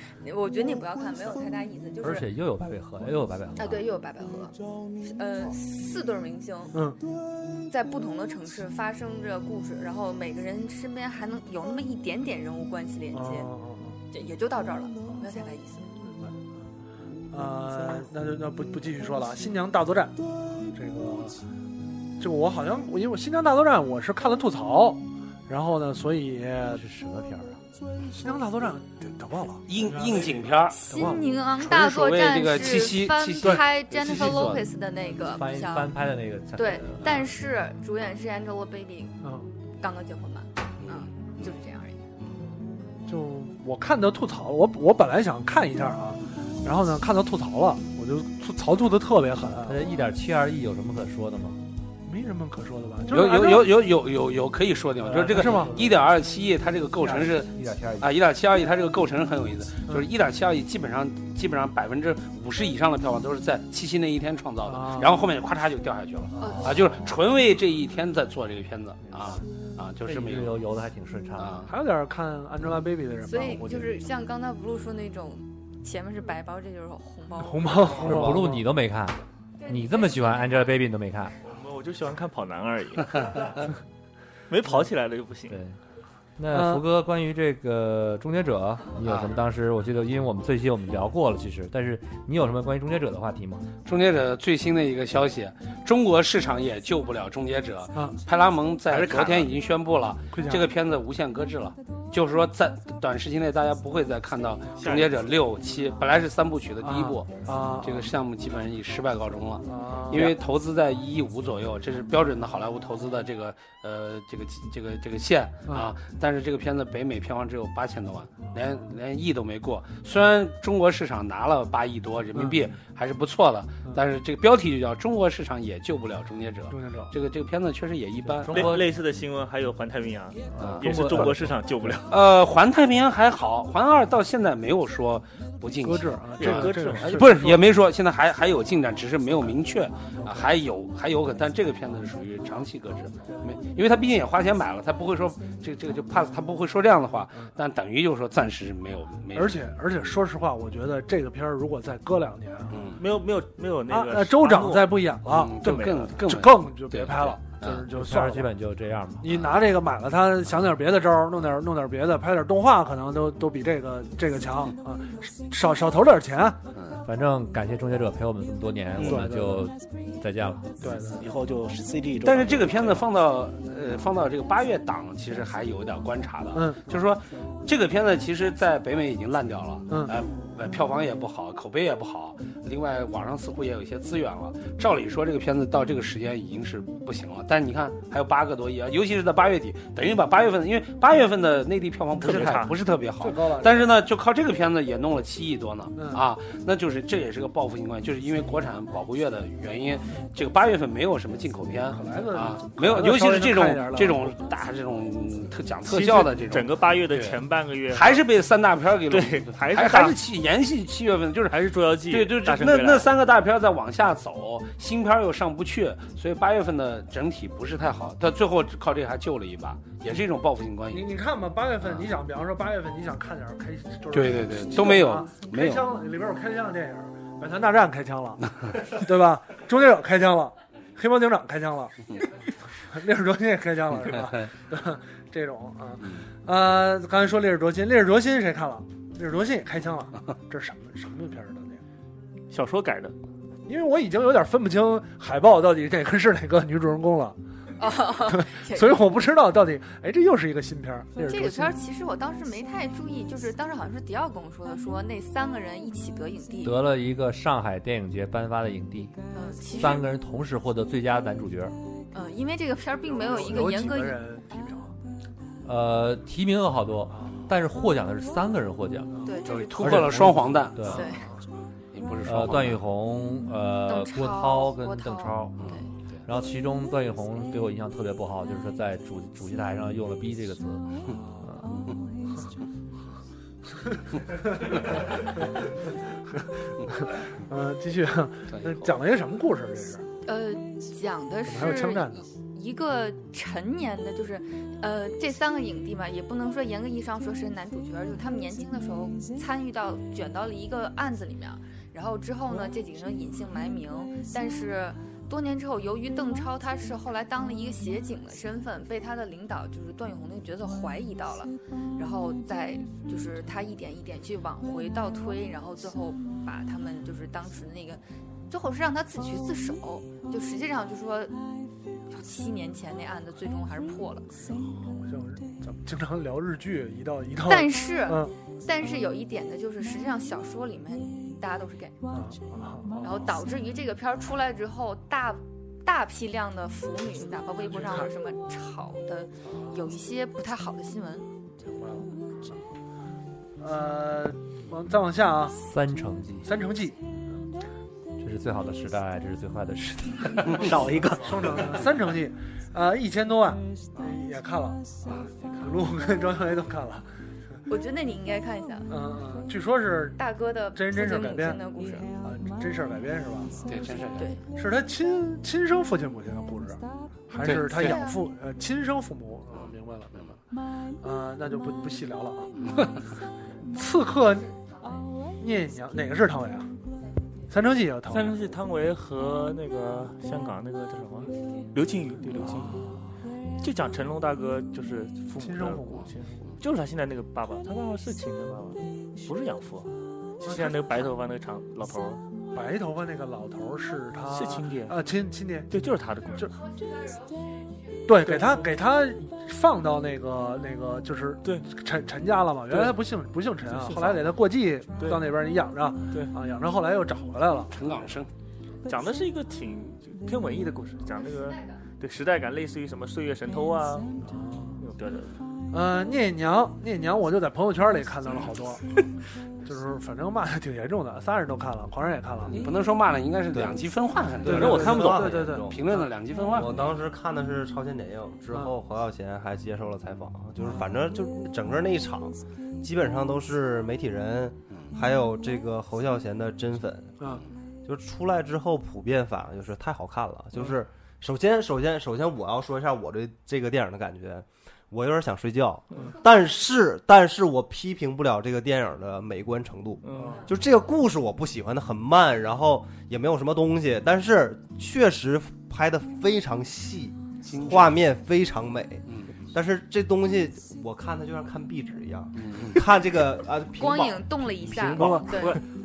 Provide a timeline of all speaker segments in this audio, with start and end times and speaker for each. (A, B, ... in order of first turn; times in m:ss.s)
0:00.2-0:02.2 A
0:02.0-0:03.8 B
0:03.6-0:06.8 A
0:06.7-0:07.0 C
0:07.7-0:13.5 A
0:13.1-0:14.0 C
0:14.1-0:15.9 A
0:16.1-0:16.3 C
0:17.3-0:20.2 C
0:20.7-0:21.4 C
0:22.2-0:26.8 C
0:26.7-0:27.6 B
0:28.1-0:29.6 C
0:29.7-0:30.8 D
0:30.7-0:35.9 A
0:30.9-0:31.3 C
0:31.6-0:34.6 D
0:34.2-0:34.5 B
0:35.1-0:37.0 B
0:36.5-0:39.2 A
0:39.2-0:39.5 C
0:39.8-0:42.0 A
0:40.8-0:41.1 D
0:43.1-0:49.8 C
0:49.6-0:51.6 B
0:52.0-0:53.7 C
0:53.1-1:10.6 D
0:55.0-0:56.0 B
0:55.3-0:55.7 C
0:57.4-0:58.2 B
1:04.6-1:05.2 C
1:06.4-1:06.7 A
1:10.0-1:11.6 B
1:11.4-1:11.7 D
1:11.7-1:13.9 C
1:13.2-1:18.1 A
1:17.4-1:18.7 C
1:18.0-1:21.4 B
1:19.6-1:20.6 A
1:21.4-1:23.6 E
1:24.5-1:25.6 E
1:25.5-1:25.8 B
1:26.4-1:33.7 B
1:26.5-1:26.8 C
1:29.0-1:29.4 D
1:33.8-2:08.6 D
1:40.3-1:40.7 C
1:44.8-1:45.2 E
1:46.8-1:48.1 C
1:49.6-1:50.4 C
2:02.4-2:02.7 C
2:06.7-2:07.1 C
2:08.3-2:08.8 B
2:08.4-2:08.8 C
2:08.5-2:12.2 E
2:10.5-2:11.3 B
2:10.8-2:11.4 C
2:12.1-2:29.6 D
2:15.8-2:17.7 C
2:16.4-2:17.4 E
2:20.2-2:20.5 C
2:29.3-2:32.8 C
2:32.7-2:33.0 D
2:33.0-2:36.2 E
2:33.9-2:38.5 C
2:35.3-2:37.8 D
2:37.9-2:39.3 B
2:39.2-2:46.6 C
2:46.7-2:47.0 D
2:47.0-2:50.7 B
2:49.0-2:49.6 C
2:50.8-2:51.3 C
2:51.2-2:52.8 F
2:52.2-3:41.1 D
2:56.5-2:56.8 C
2:59.9-3:00.1 C
3:12.2-3:12.7 E
3:13.2-3:13.9 C
3:15.9-3:16.2 C
3:21.9-3:24.4 C
3:25.9-3:26.2 C
3:26.2-3:28.2 E
3:29.1-3:30.2 E
3:31.5-3:33.1 E
3:40.9-3:52.0 C
3:44.1-3:45.9 D
3:52.9-4:01.8 C
4:02.5-4:03.1 E
4:03.6-4:07.4 C
4:07.8-4:09.0 A
4:08.3-4:11.8 C
4:11.3-4:16.8 A
4:16.6-4:19.1 B
4:19.3-4:20.1 A
4:19.8-4:21.7 B
4:22.1-4:24.2 A
4:23.1-4:24.9 C
4:25.6-4:29.1 B
4:27.1-4:27.4 C
4:29.2-4:29.9 A
4:29.4-4:31.0 D
4:29.8-4:31.0 B
4:30.8-4:31.2 A
4:31.9-4:32.8 D
4:32.2-4:41.8 B
4:33.9-4:35.8 A
4:35.6-4:35.8 D
4:47.0-4:50.0 C
4:48.5-4:49.0 D
4:50.2-5:21.4 A
4:51.5-4:52.2 C
5:22.1-5:24.3 A
5:24.5-5:28.3 C
5:27.4-5:32.0 A
5:32.1-5:33.1 C
5:33.0-5:41.3 A
5:37.7-5:38.1 C
5:39.5-5:39.8 C
5:41.6-5:42.6 C
5:43.6-5:45.6 C
5:45.6-5:46.5 B
5:46.4-5:47.0 C
5:48.2-5:50.9 B
5:50.6-5:51.4 F
5:51.1-5:57.0 C
5:57.7-5:58.9 A
5:58.9-6:00.2 C
6:00.2-6:02.1 A
6:00.7-6:01.6 C
6:02.2-6:03.6 C
6:03.6-6:04.3 D
6:04.5-6:10.3 C
6:07.4-6:08.0 D
6:07.8-6:08.2 A
6:09.5-6:10.4 D
6:11.0-6:12.6 C
6:13.6-6:14.5 C
6:15.4-6:16.7 C
6:17.5-6:18.4 C
6:18.1-6:22.8 E
6:22.3-6:23.1 C
6:23.6-6:32.2 E
6:25.4-6:26.2 C
6:30.4-6:31.1 C
6:32.5-6:35.7 C
6:34.3-6:35.1 E
6:35.7-6:36.5 E
6:37.1-6:37.7 A
6:38.0-6:47.7 C
6:38.2-6:38.7 E
6:42.7-6:43.0 E
6:43.6-6:44.4 E
6:45.0-6:45.3 E
6:47.7-6:48.3 D
6:48.9-6:54.2 E
6:51.1-6:51.8 A
6:54.2-6:54.8 C
6:54.8-6:55.4 E
6:55.7-6:59.0 C
6:59.6-7:02.6 C
7:02.5-7:06.9 D
7:04.4-7:05.5 E
7:04.4-7:06.0 C
7:04.5-7:05.8 G
7:06.5-7:17.3 G
7:17.8-7:45.4 G
7:30.0-7:30.4 E
7:30.1-7:30.4 C
7:37.4-7:38.0 D
7:39.1-7:39.4 D
7:42.4-7:42.8 D
7:43.8-7:45.6 A
7:45.0-7:45.6 E